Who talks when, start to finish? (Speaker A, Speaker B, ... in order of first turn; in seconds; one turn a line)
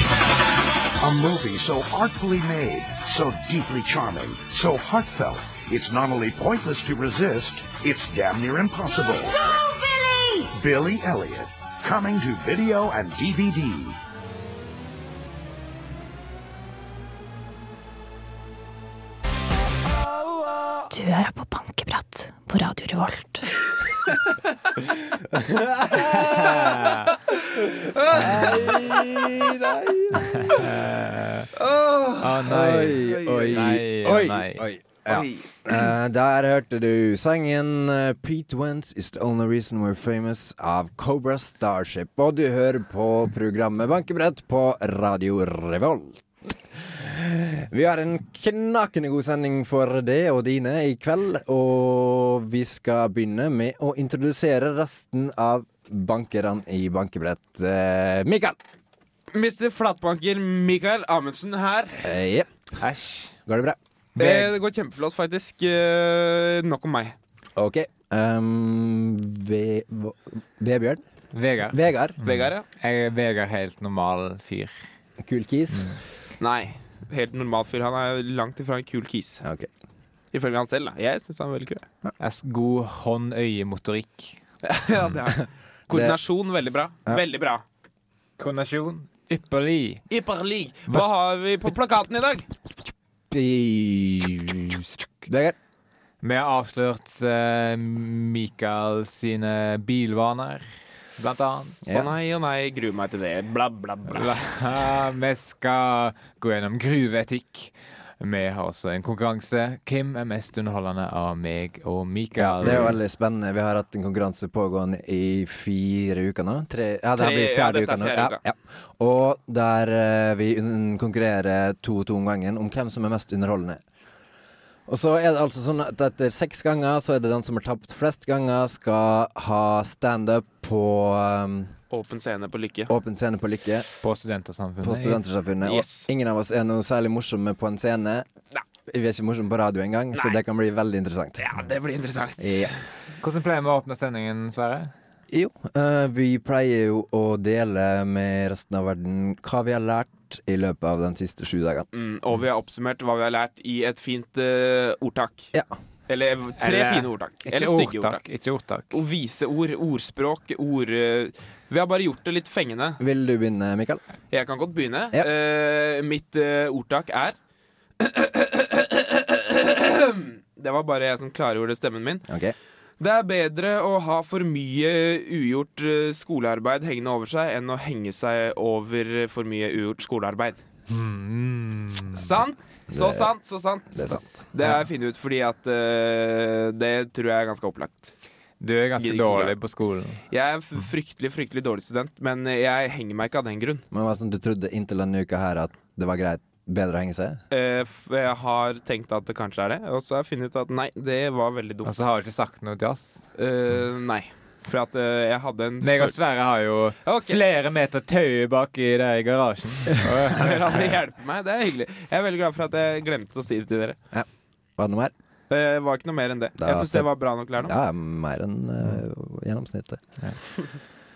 Speaker A: 1.0-14.0
Speaker B: 20.9-23.5
Speaker C: 25.3-26.2
Speaker D: 26.0-27.1
Speaker E: 26.1-26.7
Speaker E: 27.5-29.4
Speaker C: 28.1-30.6
Speaker D: 30.3-31.5
Speaker E: 31.6-32.2
Speaker D: 32.2-34.6
Speaker C: 32.4-58.6
Speaker E: 32.9-33.6
Speaker E: 35.1-35.9
Speaker E: 59.3-62.1
Speaker C: 62.0-62.5
Speaker D: 62.8-63.4
Speaker C: 63.5-63.8
Speaker D: 64.2-64.5
Speaker E: 64.2-67.2
Speaker C: 67.6-71.0
Speaker D: 71.3-74.8
Speaker C: 71.7-72.2
Speaker E: 72.2-72.6
Speaker C: 75.2-76.0
Speaker E: 76.4-79.4
Speaker C: 79.4-79.7
Speaker E: 80.3-81.9
Speaker D: 82.2-84.4
Speaker E: 84.6-87.6
Speaker C: 85.9-86.2
Speaker D: 88.4-90.0
Speaker E: 90.1-92.5
Speaker C: 93.3-95.6
Speaker D: 96.2-100.7
Speaker D: 101.2-101.8
Speaker C: 101.8-102.1
Speaker E: 101.9-104.4
Speaker D: 104.1-113.0
Speaker C: 112.4-123.8
Speaker E: 117.2-118.4
Speaker C: 124.9-131.7
Speaker E: 131.9-132.9
Speaker C: 132.9-133.9
Speaker D: 134.0-135.2
Speaker C: 134.8-138.3
Speaker E: 135.6-136.1
Speaker C: 138.9-141.5
Speaker E: 141.4-142.8
Speaker C: 142.4-142.7
Speaker D: 143.2-144.9
Speaker C: 145.3-151.9
Speaker E: 151.9-155.5
Speaker E: 156.1-158.2
Speaker D: 156.6-159.0
Speaker E: 158.9-163.0
Speaker C: 163.0-164.0
Speaker E: 164.3-167.4
Speaker E: 168.0-172.3
Speaker C: 172.3-172.6
Speaker E: 173.0-180.6
Speaker D: 180.9-182.3
Speaker E: 182.1-188.1
Speaker C: 182.9-183.3
Speaker C: 183.9-184.4
Speaker D: 188.6-190.2
Speaker E: 189.0-189.6
Speaker E: 190.3-193.8
Speaker C: 193.9-197.4
Speaker E: 197.5-202.1
Speaker D: 201.8-203.2
Speaker E: 203.4-206.2
Speaker D: 205.8-210.7
Speaker E: 207.1-207.4
Speaker E: 210.3-214.0
Speaker C: 214.1-215.1
Speaker E: 215.5-217.8
Speaker C: 216.6-220.0